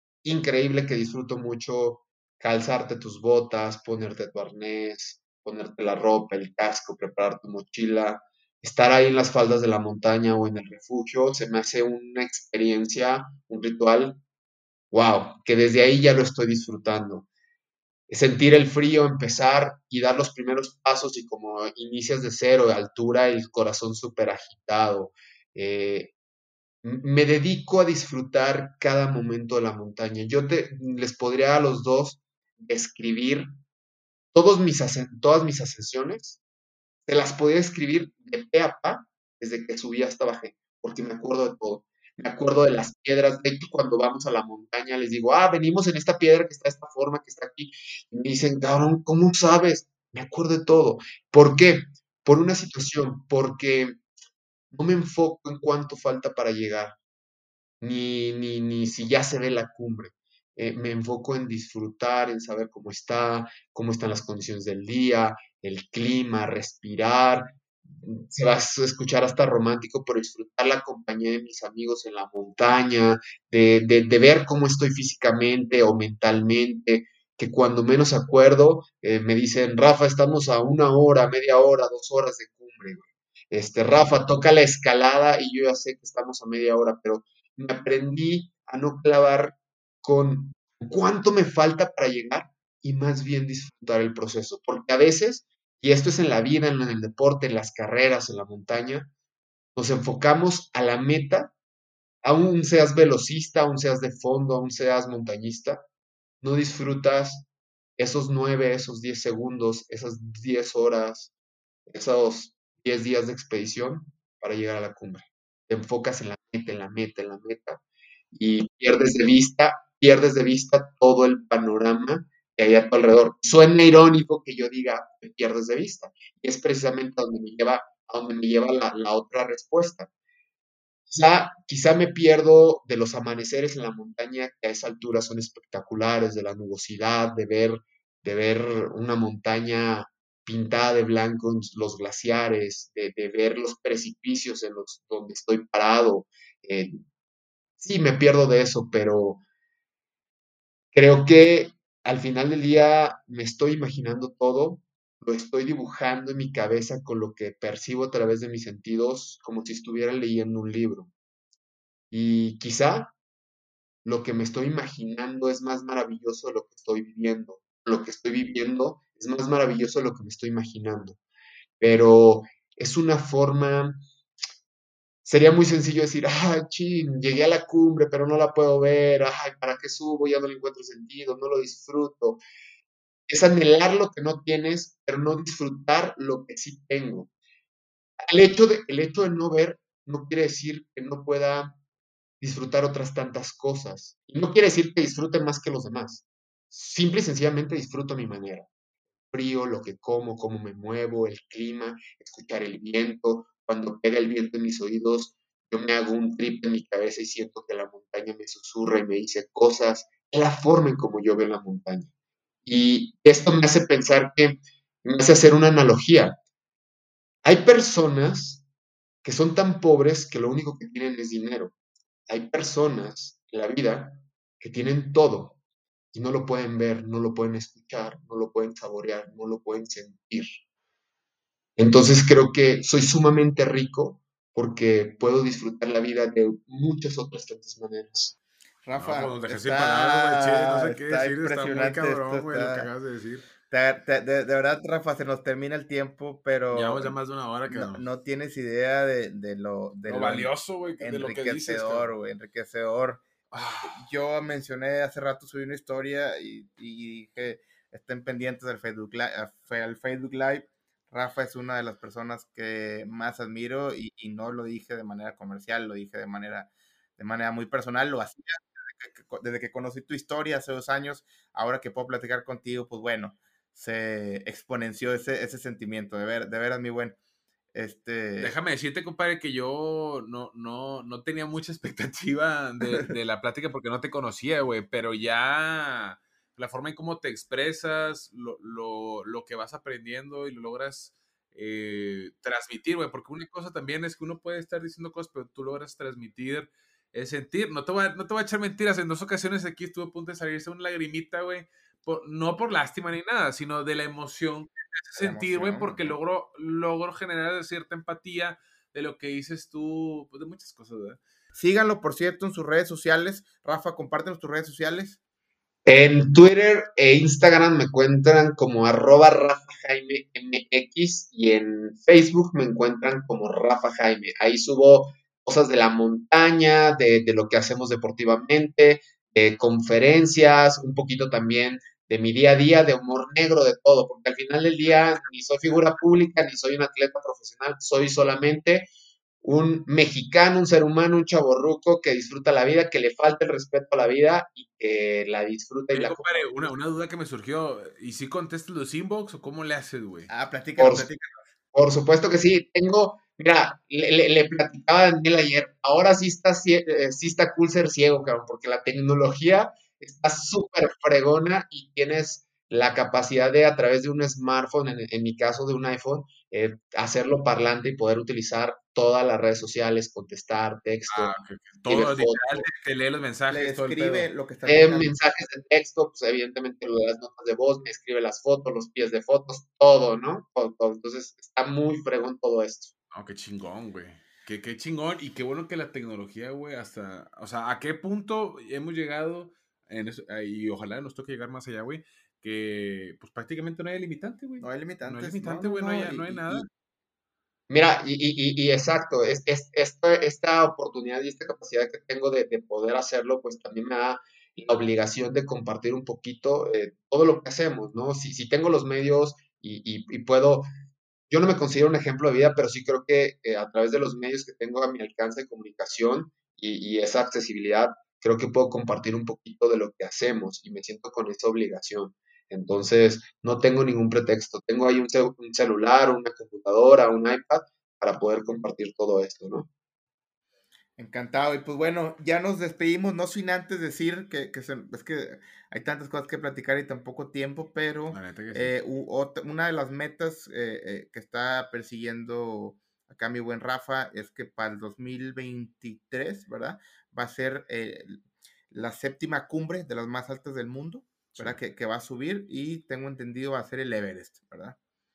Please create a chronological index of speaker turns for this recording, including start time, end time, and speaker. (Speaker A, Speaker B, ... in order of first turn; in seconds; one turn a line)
Speaker A: 0.2-14.2
Speaker A: 14.9-17.3
Speaker A: 18.1-26.1
Speaker A: 26.8-33.5
Speaker A: 34.3-36.4
Speaker A: 37.1-54.0
Speaker A: 54.7-57.0
Speaker A: 57.8-99.1
Speaker A: 99.8-101.5
Speaker A: 102.2-105.8
Speaker A: 106.4-107.5
Speaker A: 108.0-111.3
Speaker A: 111.9-117.8
Speaker A: 118.3-130.1
Speaker A: 131.1-147.0
Speaker A: 147.8-149.4
Speaker A: 150.9-161.1
Speaker A: 162.1-163.1
Speaker A: 164.1-171.2
Speaker A: 171.8-174.0
Speaker A: 175.2-182.4
Speaker A: 183.3-187.3
Speaker A: 188.3-191.8
Speaker A: 192.4-198.7
Speaker A: 199.3-212.1
Speaker A: 212.7-216.4
Speaker A: 217.4-218.6
Speaker A: 219.2-221.7
Speaker A: 222.3-225.6
Speaker A: 226.1-230.5
Speaker A: 231.8-238.4
Speaker B: 238.8-242.9
Speaker C: 238.9-243.5
Speaker B: 243.7-247.2
Speaker C: 246.7-248.0
Speaker B: 247.7-253.2
Speaker C: 250.1-252.1
Speaker C: 253.5-254.0
Speaker B: 253.8-277.2
Speaker B: 277.7-278.6
Speaker C: 278.4-311.2
Speaker B: 305.1-306.2
Speaker B: 311.6-315.2
Speaker A: 315.9-338.9
Speaker A: 339.4-346.7
Speaker C: 345.9-350.3
Speaker B: 350.3-351.5
Speaker A: 350.8-351.1
Speaker A: 351.7-372.7
Speaker C: 371.1-374.3
Speaker B: 373.5-375.1
Speaker A: 374.7-382.9
Speaker C: 383.1-396.7
Speaker B: 394.6-396.7
Speaker A: 397.7-410.7
Speaker A: 411.3-429.7
Speaker B: 431.0-454.8
Speaker C: 438.1-438.7